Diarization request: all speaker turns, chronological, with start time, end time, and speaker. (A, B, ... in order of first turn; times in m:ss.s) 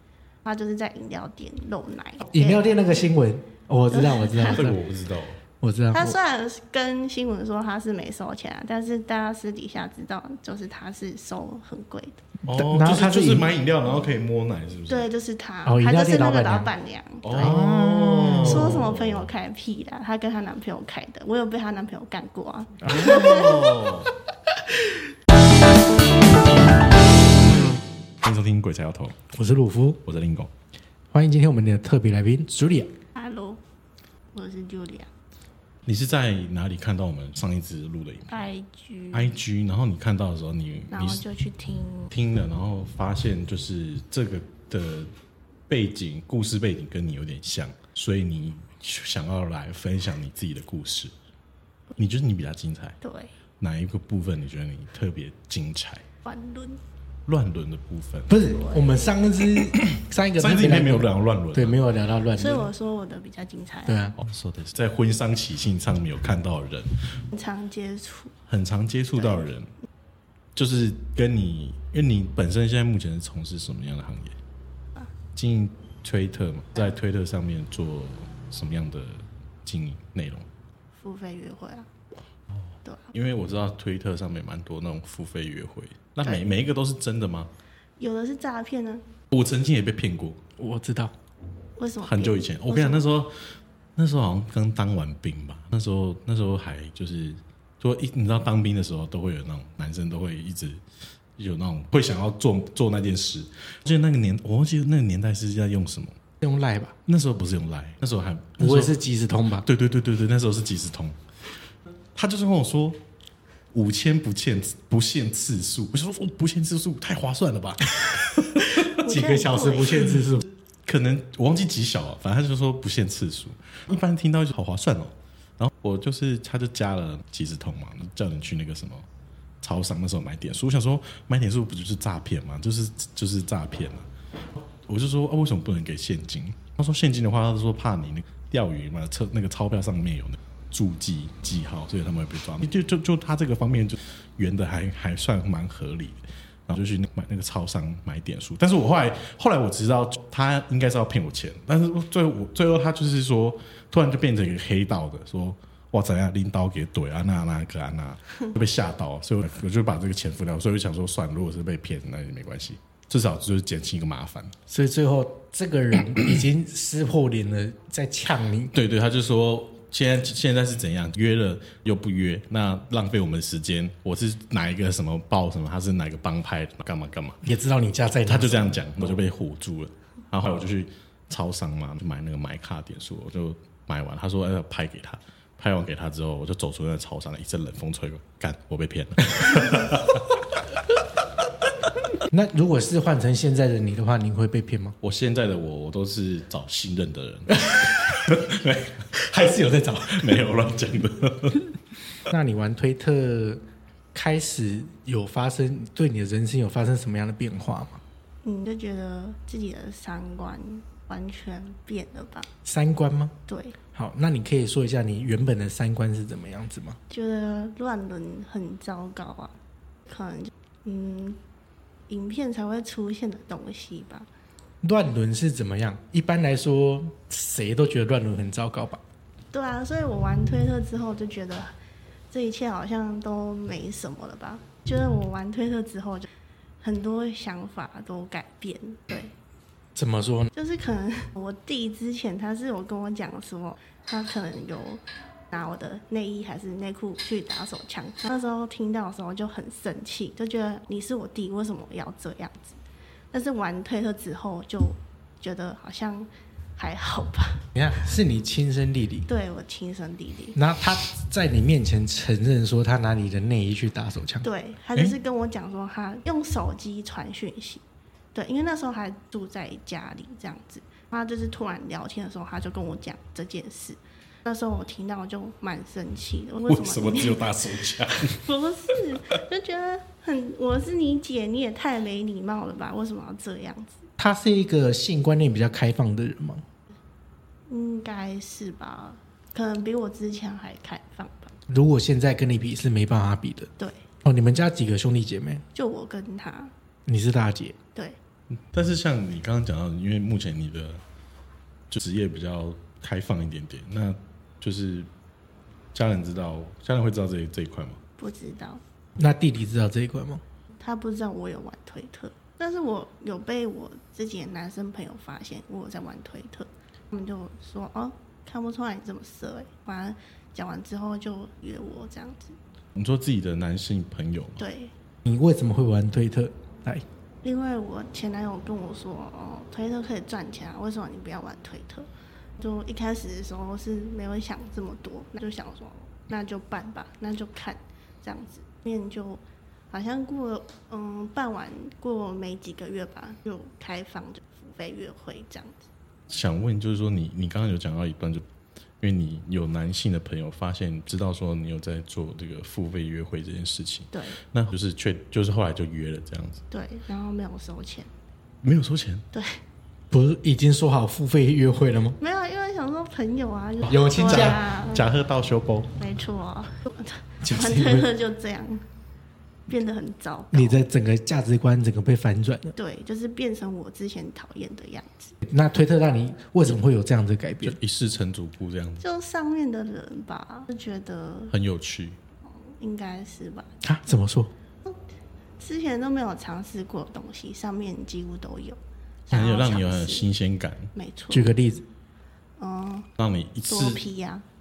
0:00.4-0:02.6 A
0:02.2-0:04.8 B
0:03.9-0:04.6 A
0:04.5-0:05.4 C
0:05.6-0:06.2 B
0:05.9-0:12.2 A
0:12.4-0:15.1 C
0:12.5-0:13.5 B
0:14.9-0:17.6 A
0:15.6-0:16.7 B
0:17.2-0:19.3 C
0:17.4-0:18.8 B
0:18.4-0:23.7 A
0:22.9-0:24.1 C
0:28.2-0:29.2 C
0:29.3-0:30.0 B
0:30.0-0:30.5 C
0:31.1-0:32.9 B
0:33.1-0:33.6 A
0:34.3-0:35.1 A
0:35.8-0:38.4 C
0:38.3-0:39.4 A
0:39.1-0:41.2 C
0:40.9-0:42.1 A
0:42.1-0:45.1 C
0:45.7-0:51.1 C
0:52.0-0:53.0 C
0:53.0-0:53.3 A
0:53.6-0:56.0 C
0:56.2-0:56.8 A
0:57.2-0:58.3 C
0:58.3-1:02.7 B
0:58.6-0:59.0 A
1:00.4-1:01.8 C
1:02.3-1:04.0 A
1:03.8-1:04.2 B
1:04.2-1:06.9 C
1:07.3-1:08.3 A
1:08.5-1:09.7 C
1:09.2-1:09.4 A
1:10.6-1:14.3 C
1:15.3-1:20.5 C
1:20.9-1:21.9 A
1:23.1-1:27.5 C
1:26.2-1:26.5 A
1:28.0-1:29.0 A
1:29.3-1:30.4 C
1:30.6-1:31.1 B
1:31.8-1:33.0 A
1:32.0-1:40.8 C
1:41.4-1:46.2 C
1:46.4-1:46.9 B
1:47.0-1:49.0 C
1:48.6-1:49.6 B
1:49.6-1:51.2 C
1:52.2-1:53.0 C
1:53.7-1:58.9 C
1:58.9-2:00.5 B
1:59.0-2:00.1 A
1:59.8-2:00.3 C
2:00.8-2:09.0 C
2:09.6-2:44.5 C
2:44.7-2:48.7 B
2:48.7-2:57.4 C
2:57.4-2:58.8 B
2:58.2-3:10.6 C
3:12.3-3:15.0 B
3:15.0-3:19.1 C
3:17.7-3:18.0 B
3:19.2-3:20.4 B
3:20.0-3:21.7 C
3:22.3-3:23.6 B
3:24.1-3:28.0 B
3:28.4-3:32.5 A
3:32.6-3:33.3 B
3:33.5-3:33.8 A
3:33.9-3:37.0 B
3:37.1-3:39.5 A
3:40.1-3:41.4 A
3:42.1-3:44.3 A
3:44.8-3:49.0 B
3:49.5-3:51.8 A
3:52.3-3:56.3 A
3:56.8-3:59.3 A
3:59.9-4:00.5 B
4:00.5-4:12.8 A
4:13.3-4:17.6 A
4:17.7-4:19.3 B
4:19.3-4:20.6 A
4:20.5-4:24.5 B
4:24.4-4:27.8 A
4:28.3-4:37.4 A
4:36.6-4:38.4 C
4:38.3-4:44.0 A
4:44.2-4:46.6 B
4:47.7-4:51.5 A
4:51.7-4:53.7 B
4:53.8-4:54.0 A
4:54.2-4:55.6 B
4:55.7-4:56.7 A
4:57.1-4:57.8 B
4:58.7-5:01.0 C
5:01.9-5:05.1 C
5:05.9-5:08.0 C
5:08.2-5:08.8 A
5:09.2-5:10.4 B
5:10.8-5:22.6 A
5:23.0-5:24.6 C
5:24.6-5:24.9 A
5:25.2-5:27.0 B
5:27.4-5:45.9 A
5:46.3-5:48.4 C
5:49.0-5:56.6 C
5:54.1-5:54.4 A
5:56.7-5:58.1 A
5:58.6-5:59.2 C
5:59.3-5:59.6 A
6:00.1-6:02.2 B
6:02.2-6:05.0 A
6:03.8-6:05.9 C
6:03.9-6:04.6 B
6:06.0-6:08.8 A
6:07.4-6:08.1 B
6:09.7-6:10.8 A
6:10.5-6:12.7 B
6:12.8-6:15.4 A
6:15.4-6:17.8 B
6:17.6-6:19.0 C
6:19.0-6:21.5 A
6:21.5-6:22.2 C
6:22.5-6:23.7 A
6:23.8-6:24.5 B
6:25.6-6:30.3 A
6:29.3-6:30.9 C
6:30.9-6:31.5 A
6:31.3-6:31.8 B
6:32.6-6:33.1 A
6:33.2-6:34.0 C
6:33.7-6:34.4 A